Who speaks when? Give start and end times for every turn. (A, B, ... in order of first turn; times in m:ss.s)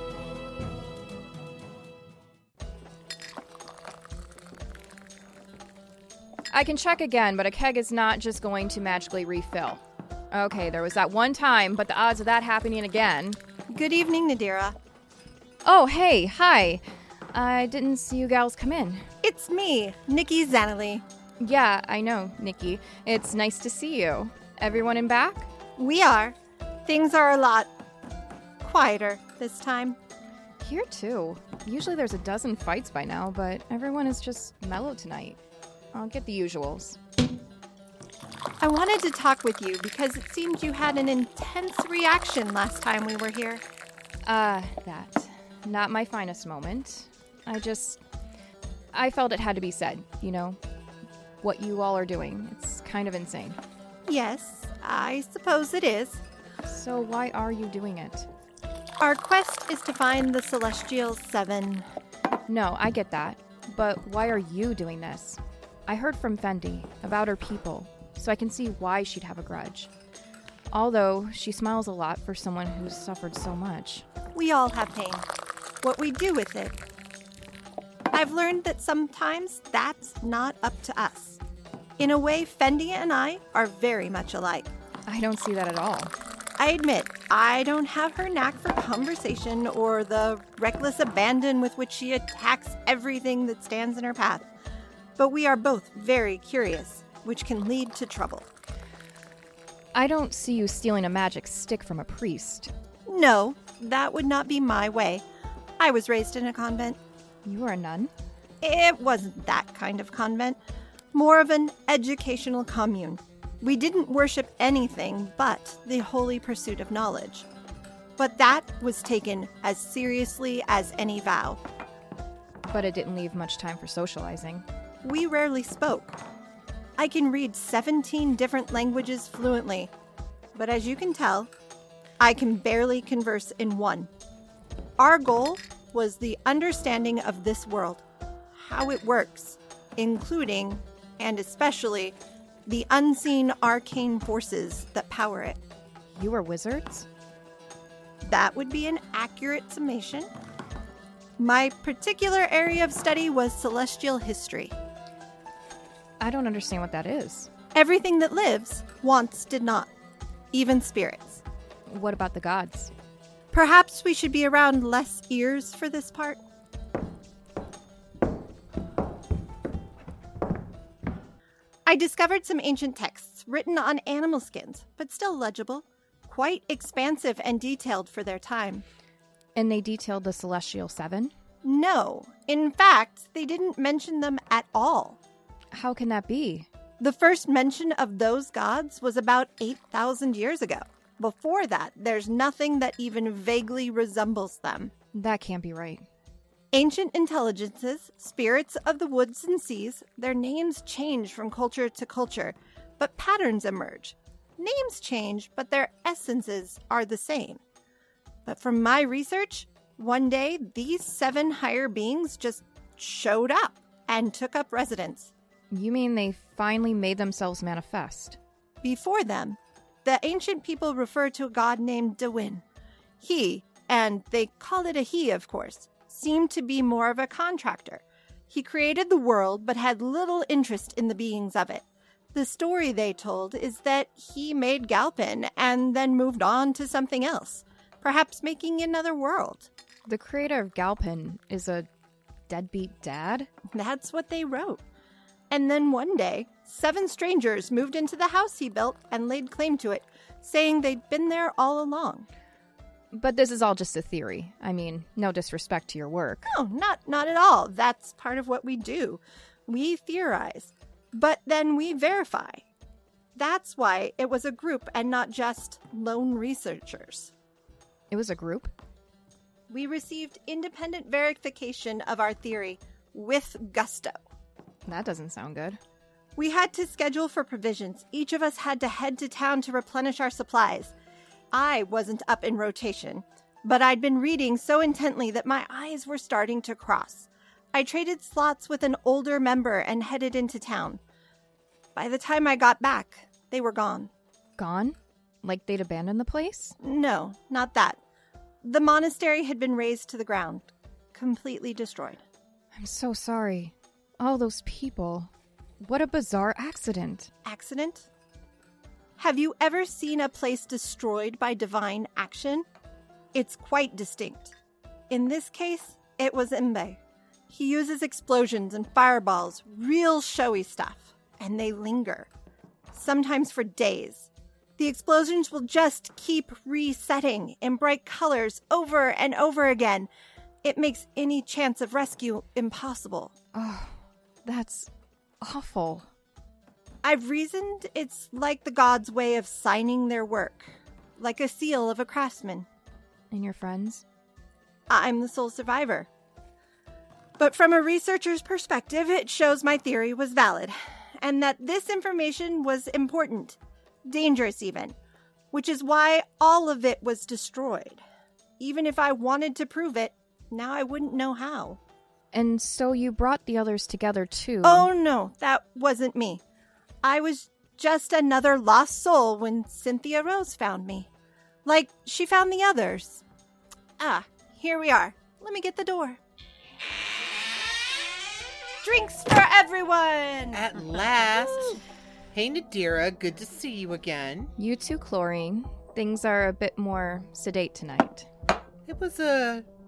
0:06.5-0:13.4 A
0:13.7-0:14.8 B
0:15.6-0:16.8 A
0:17.3-0:19.0 A
0:19.2-0:21.0 B
0:21.4-0:25.5 A
0:25.8-0:27.7 B
0:28.6-0:30.0 B
0:30.6-0:35.4 A
0:35.9-0:37.0 A
0:38.6-0:43.6 B
0:44.2-0:48.0 A
0:48.9-0:50.6 A
0:51.4-0:53.6 A
0:54.0-0:56.2 B
0:56.6-0:58.3 A
0:59.0-1:01.9 B
1:02.5-1:09.9 A
1:10.7-1:14.0 A
1:14.3-1:15.2 B
1:15.8-1:16.8 B
1:18.1-1:21.4 B
1:22.0-1:24.7 B
1:25.1-1:26.1 A
1:26.6-1:34.5 B
1:35.2-1:38.5 B
1:39.9-1:42.7 A
1:43.1-1:45.2 B
1:45.8-1:47.0 B
1:47.4-1:48.1 A
1:48.6-1:50.6 B
1:51.1-1:57.5 B
1:58.2-2:01.6 B
2:02.7-2:04.6 A
2:05.0-2:06.1 B
2:07.0-2:09.9 B
2:10.5-2:11.5 B
2:12.2-2:14.1 B
2:15.0-2:18.0 B
2:18.6-2:22.1 B
2:22.7-2:25.6 B
2:26.1-2:27.1 A
2:28.2-2:30.3 B
2:31.4-2:34.7 B
2:36.2-2:37.5 A
2:37.7-2:39.9 B
2:40.5-2:41.4 B
2:41.9-2:42.9 A
2:43.5-2:46.4 B
2:51.8-2:58.8 B
2:59.6-3:01.3 A
3:01.6-3:05.2 B
3:05.7-3:06.7 A
3:07.0-3:14.9 B
3:15.1-3:16.0 A
3:16.7-3:27.6 B
3:28.4-3:35.3 B
3:35.7-3:38.4 A
3:38.8-3:42.6 B
3:43.2-3:59.7 B
4:00.1-4:01.9 A
4:02.5-4:03.5 A
4:03.7-4:04.8 B
4:05.5-4:12.3 B
4:13.1-4:16.5 A
4:16.5-4:22.6 B
4:23.4-4:27.3 B
4:28.1-4:28.7 A
4:29.7-4:34.2 B
4:34.9-4:35.8 A
4:36.4-4:40.9 B
4:41.5-4:51.0 B
4:51.9-4:54.1 B
4:54.6-4:56.8 A
4:56.8-4:58.0 B
4:58.6-5:02.2 B
5:02.7-5:07.3 A
5:07.4-5:08.1 B
5:09.2-5:12.6 B
5:13.3-5:14.5 B
5:15.1-5:22.3 B
5:22.9-5:30.1 B
5:30.6-5:33.3 B
5:33.5-5:34.9 A
5:35.4-5:36.1 A
5:37.0-5:42.7 B
5:43.3-5:44.0 A
5:44.9-5:46.1 B
5:47.4-5:55.0 B
5:55.5-5:58.0 B
5:58.6-6:01.8 B
6:02.3-6:04.9 A
6:04.6-6:06.4 B
6:07.0-6:11.1 B
6:11.6-6:13.2 B
6:14.0-6:16.2 B
6:18.8-6:20.6 B
6:20.5-6:21.8 C
6:22.3-6:24.5 C
6:24.6-6:28.3 A
6:28.8-6:29.6 C